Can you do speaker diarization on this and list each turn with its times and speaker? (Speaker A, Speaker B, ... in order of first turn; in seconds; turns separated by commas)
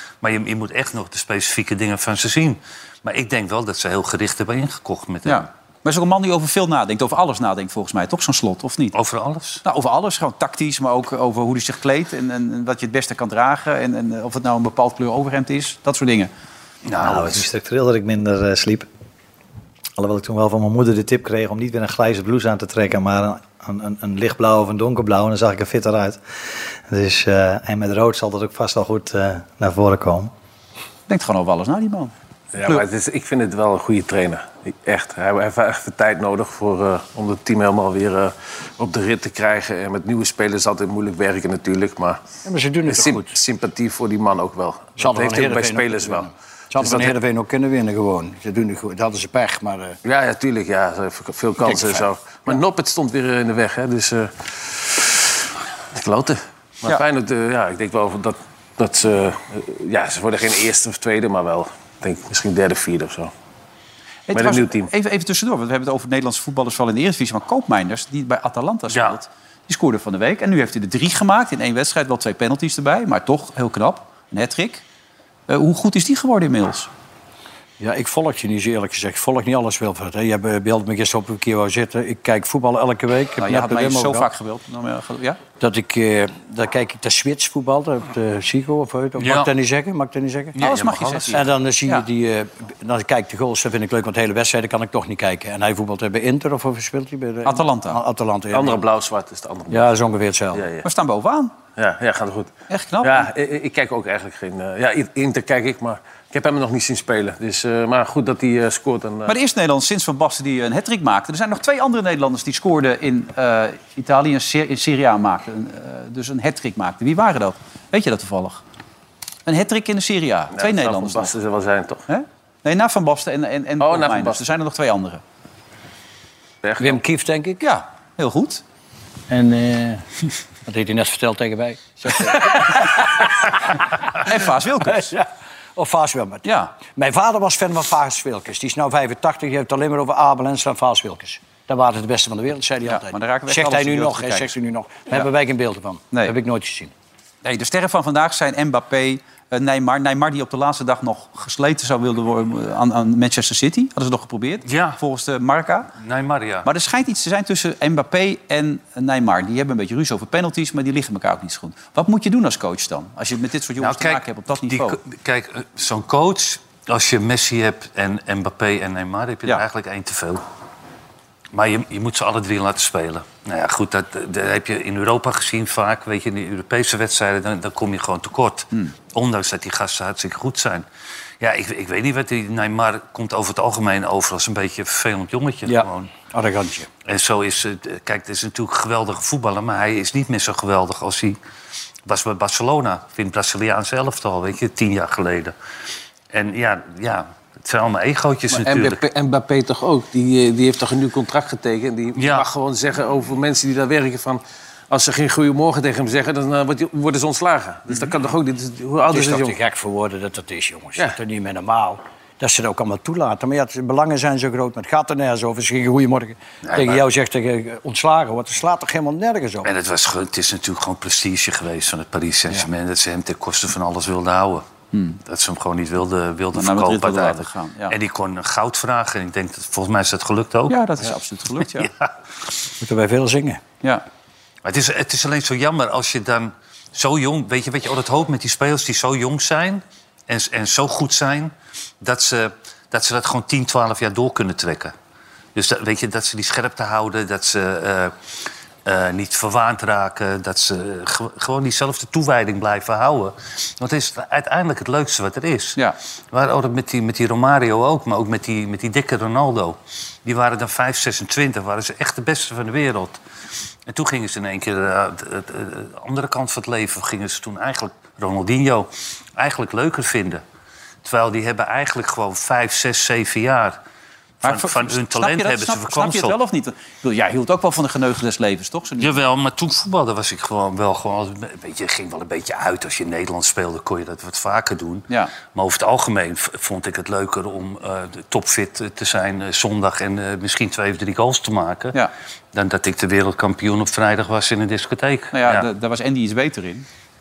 Speaker A: 0.2-5.5, Speaker B: 5.2-8.9, Speaker A: 8.9-9.6, Speaker B: 9.6-16.3, Speaker A: 16.9-17.5, Speaker C: 17.0-18.9, Speaker C: 20.0-26.2, Speaker C: 26.9-30.3, Speaker B: 31.1-32.1, Speaker D: 32.5-42.2, Speaker E: 42.5-43.4, Speaker D: 42.9-47.1, Speaker E: 45.0-50.0, Speaker D: 50.0-55.3, Speaker E: 51.6-52.6, Speaker D: 55.9-63.3, Speaker B: 64.3-74.8, Speaker D: 64.3-64.9, Speaker A: 68.9-69.2, Speaker B: 75.5-76.9, Speaker E: 77.8-84.3, Speaker B: 83.4-85.4, Speaker E: 85.6-90.6, Speaker A: 89.2-89.5, Speaker B: 90.6-92.1, Speaker D: 90.6-91.3, Speaker E: 91.3-98.8, Speaker B: 97.5-98.0, Speaker D: 98.5-99.9, Speaker E: 99.7-100.6, Speaker D: 100.5-100.9, Speaker B: 100.8-101.5, Speaker D: 101.8-109.3, Speaker B: 102.7-103.3, Speaker B: 109.3-118.6, Speaker B: 119.5-121.3, Speaker D: 120.5-122.0, Speaker B: 122.1-125.2, Speaker D: 123.8-124.4, Speaker D: 126.6-127.0, Speaker E: 126.8-127.7, Speaker B: 127.6-128.6, Speaker E: 129.3-130.1, Speaker E: 130.7-133.6, Speaker B: 134.2-135.1, Speaker E: 134.9-135.2, Speaker E: 135.8-146.9, Speaker B: 136.4-136.7, Speaker B: 142.8-144.5, Speaker B: 147.4-155.9, Speaker A: 154.7-155.0, Speaker A: 156.0-156.7, Speaker B: 156.6-165.0, Speaker A: 163.8-170.4, Speaker A: 171.5-180.8, Speaker A: 181.4-186.1, Speaker E: 185.7-186.9, Speaker A: 187.1-191.4, Speaker A: 192.1-195.5, Speaker A: 196.3-199.0, Speaker D: 198.5-209.6, Speaker A: 202.2-202.5, Speaker E: 209.1-219.7, Speaker A: 216.7-217.0, Speaker A: 219.6-224.7, Speaker B: 224.9-225.2, Speaker A: 225.3-230.8, Speaker B: 226.5-227.9, Speaker B: 230.7-231.9, Speaker A: 231.7-232.1, Speaker E: 232.8-233.6, Speaker A: 234.7-244.9, Speaker A: 245.6-248.2, Speaker A: 248.9-263.2, Speaker A: 263.9-270.4, Speaker A: 271.0-273.8, Speaker A: 274.4-276.4, Speaker B: 274.4-279.2, Speaker A: 279.0-292.0, Speaker A: 292.5-295.6, Speaker B: 295.3-296.9